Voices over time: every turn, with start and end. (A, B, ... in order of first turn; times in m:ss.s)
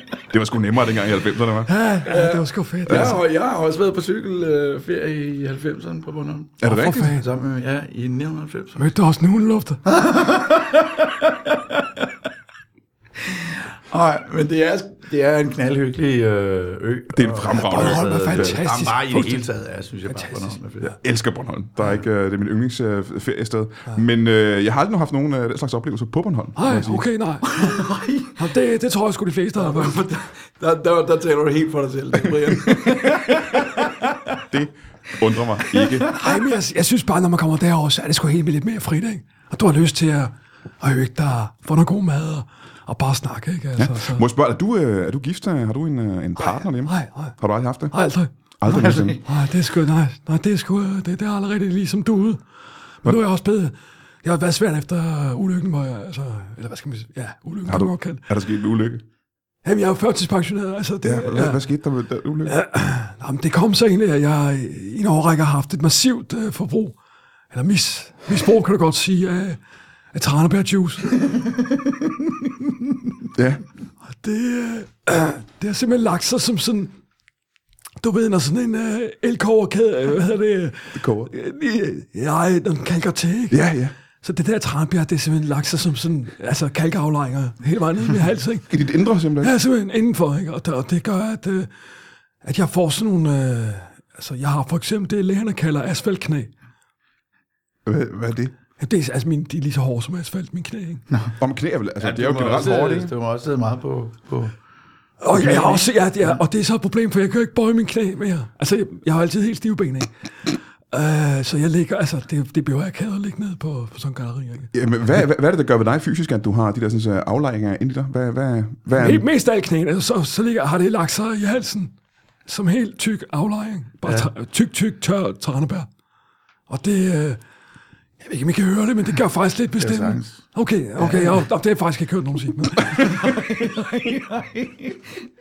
0:00.3-0:01.7 A
0:01.7-0:03.2 B
0:02.0-0:08.9 C
0:02.9-0:03.2 A
0:06.6-0:07.1 A
0:06.6-0:07.2 B
0:08.8-0:09.8 B
0:09.8-0:12.1 C
0:13.2-0:21.0 C
0:17.1-0:18.6 A
0:17.5-0:19.5 B
0:20.1-0:20.6 B
0:20.9-0:27.0 A
0:26.6-0:30.0 B
0:27.4-0:28.5 C
0:29.6-0:34.4 C
0:34.5-0:36.1 A
0:35.6-0:36.5 C
0:36.1-0:44.2 B
0:43.8-0:47.9 A
0:46.4-0:47.4 B
0:47.9-0:48.3 B
0:48.6-0:49.2 A
0:48.6-0:49.3 C
0:49.2-0:52.4 B
0:53.0-0:58.2 B
0:57.7-0:59.0 A
0:59.6-1:01.6 B
1:01.0-1:02.6 A
1:02.4-1:07.0 B
1:07.5-1:09.6 B
1:10.1-1:11.2 B
1:11.3-1:12.1 C
1:13.3-1:13.6 A
1:14.2-1:16.9 B
1:18.0-1:23.6 B
1:20.9-1:21.3 A
1:23.5-1:23.9 A
1:24.2-1:28.7 B
1:28.7-1:29.6 A
1:29.4-1:31.7 B
1:32.4-1:36.5 B
1:37.9-1:38.5 A
1:38.8-1:41.0 B
1:41.4-1:43.1 A
1:42.0-1:44.6 C
1:45.2-1:54.7 B
1:45.3-1:46.4 C
1:54.7-1:59.2 A
1:59.0-2:01.9 B
2:02.5-2:05.9 B
2:04.0-2:04.3 C
2:06.7-2:07.4 B
2:08.2-2:13.4 B
2:09.8-2:10.4 C
2:11.0-2:11.5 C
2:12.9-2:15.2 C